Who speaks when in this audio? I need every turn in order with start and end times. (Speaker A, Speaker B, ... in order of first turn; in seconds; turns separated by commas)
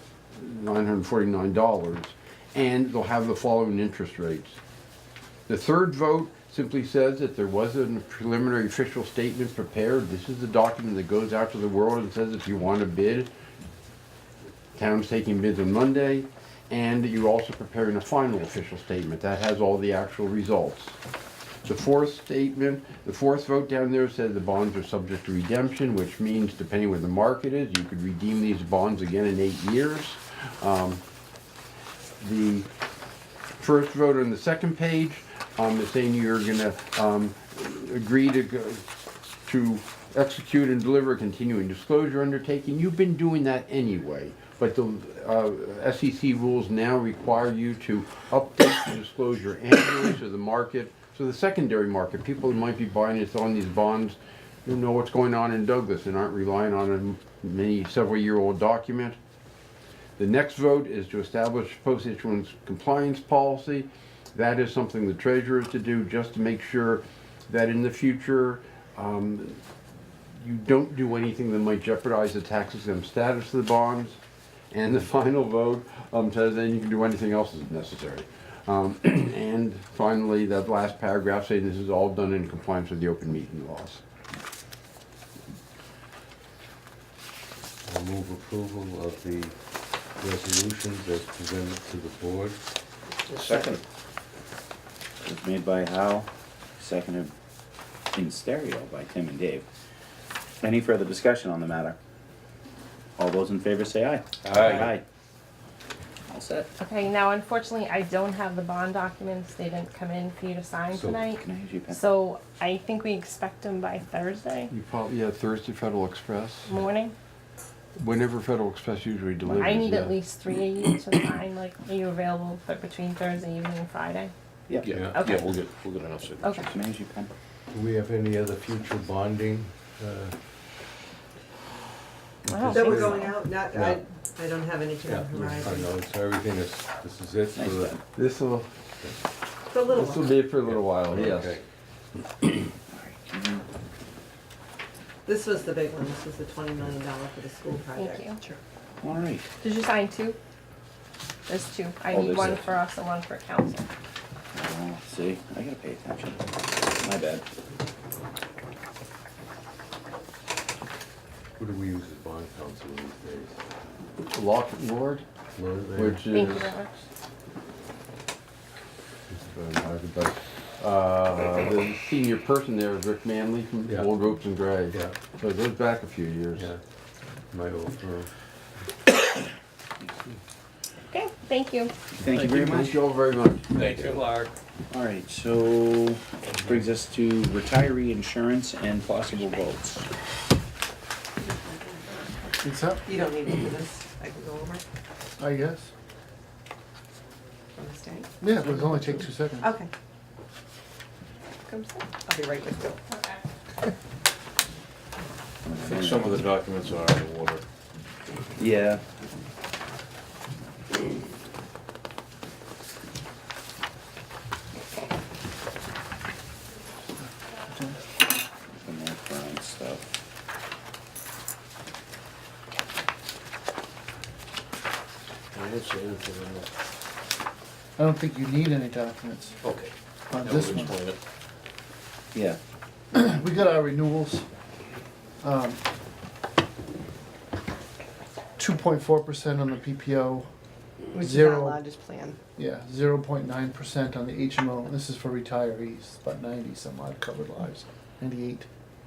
Speaker A: 0.3-4.6, Speaker A: 5.5-13.3, Speaker A: 14.8-21.0, Speaker A: 21.6-31.0, Speaker A: 32.2-32.7, Speaker A: 33.6-38.8, Speaker A: 39.5-59.2, Speaker A: 60.2-69.6, Speaker A: 70.4-74.2, Speaker A: 74.7-84.0, Speaker B: 87.8-89.5, Speaker B: 90.2-92.6, Speaker C: 93.3-93.8, Speaker D: 93.4-93.8, Speaker C: 95.2-97.3, Speaker C: 98.1-99.6, Speaker C: 100.6-102.0, Speaker C: 103.2-105.0, Speaker D: 104.5-104.9, Speaker C: 106.3-106.7, Speaker E: 106.8-114.7, Speaker C: 111.3-112.0, Speaker A: 114.7-116.7, Speaker E: 116.7-117.1, Speaker A: 118.0-120.2, Speaker E: 119.5-124.3, Speaker C: 124.7-125.0, Speaker D: 124.8-126.6, Speaker E: 125.1-125.6, Speaker E: 126.4-126.7, Speaker C: 126.6-127.3, Speaker B: 127.7-130.3, Speaker B: 132.4-133.0, Speaker E: 132.5-133.4, Speaker F: 132.7-135.9, Speaker B: 135.1-137.9, Speaker C: 137.5-138.0, Speaker A: 138.1-138.7, Speaker F: 139.7-140.4, Speaker A: 139.9-141.6, Speaker B: 140.7-141.6, Speaker C: 142.9-143.6, Speaker F: 145.2-148.6, Speaker E: 147.9-148.4, Speaker C: 149.0-149.4, Speaker E: 149.6-150.4, Speaker E: 151.5-153.8, Speaker C: 152.1-152.7, Speaker C: 154.5-157.4, Speaker B: 161.6-163.6, Speaker A: 164.3-165.2, Speaker B: 165.6-166.2, Speaker A: 165.9-166.7, Speaker E: 166.3-167.0, Speaker A: 169.5-176.7, Speaker B: 174.9-175.2, Speaker B: 177.5-178.3, Speaker E: 181.1-181.9, Speaker C: 182.1-183.0, Speaker A: 182.3-184.1, Speaker D: 183.7-184.5, Speaker C: 184.9-190.0, Speaker F: 191.4-192.2, Speaker G: 192.6-193.1, Speaker F: 193.1-194.8, Speaker G: 195.4-195.9, Speaker F: 197.7-198.3, Speaker G: 198.4-199.8, Speaker F: 199.6-199.9, Speaker F: 201.9-203.0, Speaker E: 203.1-203.4, Speaker C: 205.6-206.5, Speaker D: 205.8-207.6, Speaker C: 208.6-209.0, Speaker G: 217.7-218.0, Speaker C: 218.8-220.0, Speaker D: 225.5-226.7, Speaker G: 228.0-229.6, Speaker D: 229.6-231.2, Speaker G: 230.3-231.0, Speaker C: 232.3-232.6, Speaker G: 233.1-234.5, Speaker G: 235.4-235.8, Speaker G: 238.6-240.5, Speaker F: 241.1-242.4, Speaker G: 241.2-241.9, Speaker G: 242.6-248.7